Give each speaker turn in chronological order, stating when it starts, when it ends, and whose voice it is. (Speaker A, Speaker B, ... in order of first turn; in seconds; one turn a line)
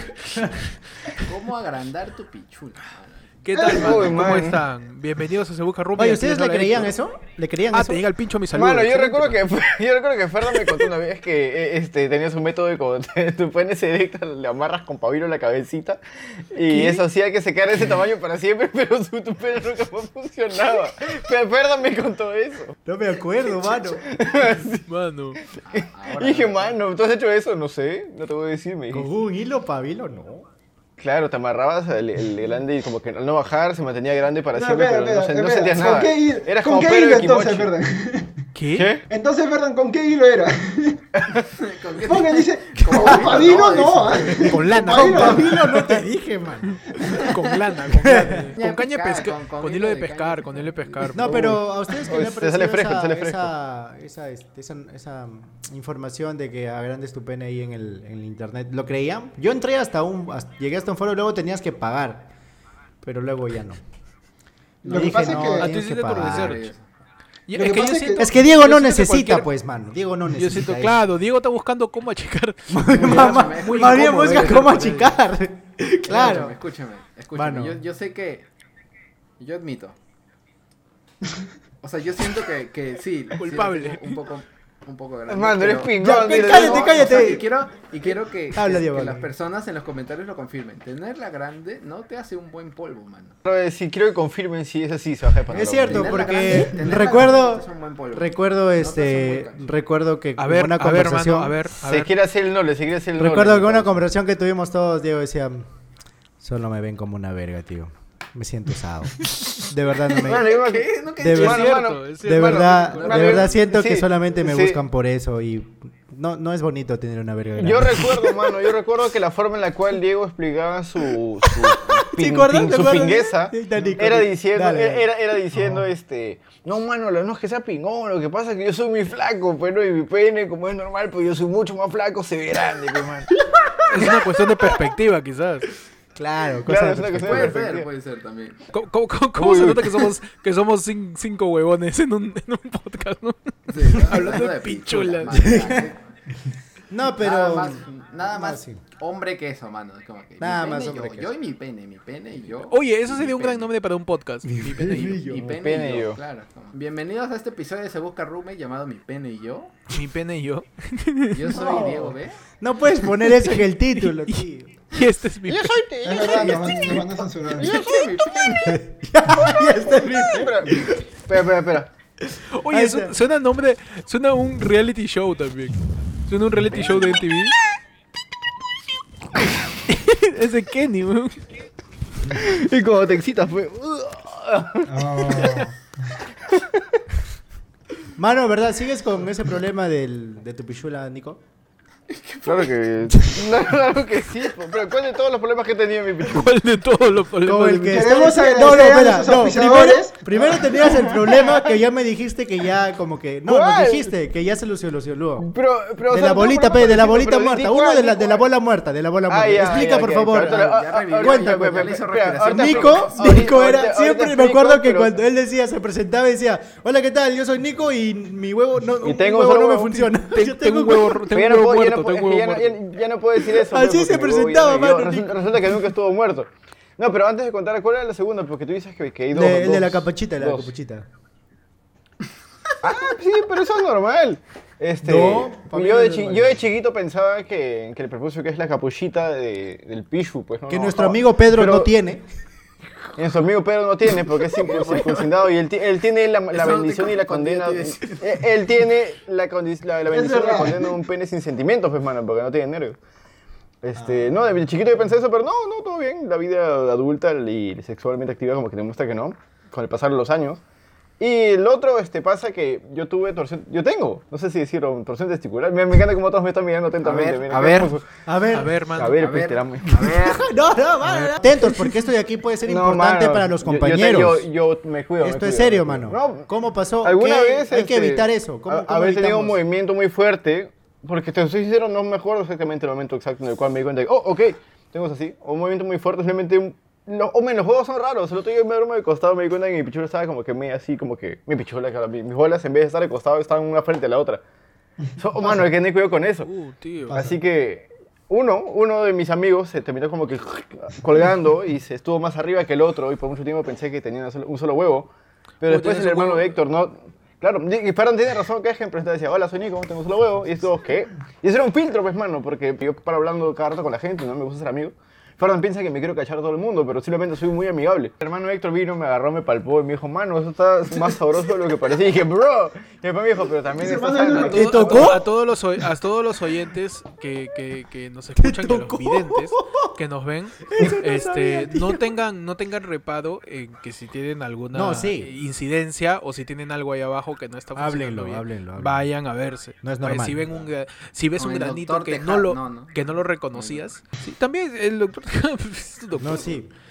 Speaker A: 1.2-3.7
Speaker B: 3.4-6.9
Speaker C: 3.5-4.1
Speaker D: 3.7-4.6
Speaker E: 6.0-8.0
Speaker B: 7.7-9.4
Speaker D: 8.5-16.0
Speaker D: 16.5-22.8
Speaker E: 16.7-17.0
Speaker E: 22.9-24.1
Speaker D: 23.5-29.1
Speaker B: 24.9-25.4
Speaker A: 25.6-26.8
Speaker E: 28.9-30.5
Speaker D: 31.0-37.7
Speaker C: 34.5-38.5
Speaker B: 38.5-38.9
Speaker D: 38.7-39.0
Speaker C: 39.1-41.1
Speaker D: 41.2-41.4
Speaker A: 41.5-44.5
Speaker C: 42.0-45.6
Speaker E: 43.0-43.4
Speaker E: 44.2-46.8
Speaker B: 44.3-46.0
Speaker B: 46.6-51.6
Speaker A: 47.0-47.5
Speaker E: 47.9-48.6
Speaker A: 48.5-51.3
Speaker E: 51.2-62.3
Speaker D: 51.2-53.5
Speaker E: 63.0-63.8
Speaker C: 64.8-65.7
Speaker E: 64.8-66.6
Speaker B: 65.2-66.7
Speaker A: 66.2-66.9
Speaker B: 67.5-69.5
Speaker C: 67.5-68.3
Speaker E: 68.2-71.0
Speaker B: 70.3-75.1
Speaker E: 72.7-76.6
Speaker A: 72.9-75.2
Speaker A: 76.1-78.5
Speaker E: 77.3-77.8
Speaker A: 79.4-80.0
Speaker A: 81.8-93.4
Speaker B: 83.3-84.2
Speaker D: 85.3-87.3
Speaker E: 86.0-87.5
Speaker E: 88.1-89.3
Speaker D: 93.4-96.5
Speaker E: 95.5-101.6
Speaker A: 95.8-99.7
Speaker B: 100.4-102.1
Speaker D: 101.8-104.0
Speaker E: 103.2-105.7
Speaker E: 106.4-110.5
Speaker A: 110.0-111.8
Speaker D: 110.2-114.8
Speaker E: 111.2-118.6
Speaker B: 111.3-113.2
Speaker A: 112.9-113.6
Speaker D: 117.6-133.4
Speaker E: 121.4-125.1
Speaker C: 125.5-125.9
Speaker E: 133.5-134.1
Speaker B: 133.8-135.7
Speaker E: 136.2-137.6
Speaker D: 136.6-137.9
Speaker A: 137.2-138.6
Speaker B: 138.7-145.6
Speaker D: 139.4-140.1
Speaker A: 143.7-146.0
Speaker E: 145.4-145.8
Speaker E: 146.9-148.8
Speaker A: 147.2-153.7
Speaker E: 150.4-151.3
Speaker B: 152.7-155.3
Speaker E: 154.4-155.6
Speaker A: 155.3-159.8
Speaker D: 155.4-156.2
Speaker B: 159.9-161.5
Speaker A: 161.3-162.4
Speaker E: 161.5-164.8
Speaker B: 163.1-165.8
Speaker D: 165.5-168.8
Speaker C: 166.0-167.8
Speaker E: 166.2-167.1
Speaker A: 167.6-168.8
Speaker E: 168.6-171.0
Speaker D: 169.9-171.9
Speaker E: 172.3-173.1
Speaker B: 172.5-177.6
Speaker D: 176.7-177.2
Speaker B: 179.9-181.5
Speaker D: 182.2-185.7
Speaker C: 184.9-185.9
Speaker E: 188.2-191.4
Speaker A: 192.1-192.7
Speaker D: 192.4-196.5
Speaker B: 196.2-198.1
Speaker E: 197.4-205.5
Speaker C: 197.9-200.9
Speaker D: 200.8-201.6
Speaker D: 203.5-204.1
Speaker D: 205.4-208.5
Speaker E: 206.1-210.7
Speaker D: 209.3-215.2
Speaker A: 210.3-213.2
Speaker E: 211.3-211.8
Speaker E: 212.5-221.2
Speaker D: 219.0-220.1
Speaker B: 220.2-222.8
Speaker D: 221.3-230.7
Speaker E: 223.5-225.8
Speaker E: 229.3-231.1
Speaker D: 232.8-241.9
Speaker E: 235.0-236.6
Speaker E: 240.7-242.2
Speaker D: 243.2-253.0
Speaker A: 246.5-248.4
Speaker C: 250.1-251.0
Speaker D: 253.8-260.6
Speaker C: 254.0-254.5
Speaker D: 261.2-268.2
Speaker A: 267.0-267.9
Speaker E: 268.3-268.8
Speaker B: 268.5-269.2
Speaker D: 268.9-270.2
Speaker A: 269.2-270.5
Speaker E: 269.9-274.5
Speaker B: 271.0-271.7
Speaker D: 272.7-276.5
Speaker E: 275.2-279.6
Speaker D: 277.0-294.4
Speaker D: 295.2-296.5
Speaker C: 295.4-295.7
Speaker B: 296.4-297.2
Speaker C: 297.1-297.4
Speaker D: 297.1-324.9
Speaker B: 305.6-306.6
Speaker C: 323.7-325.2
Speaker B: 324.4-346.6
Speaker E: 324.5-325.3
Speaker E: 328.4-329.9
Speaker E: 330.7-332.1
Speaker E: 334.7-335.3
Speaker E: 337.8-339.1
Speaker E: 339.8-340.5
Speaker A: 341.4-342.9
Speaker A: 343.5-343.8
Speaker E: 346.2-346.7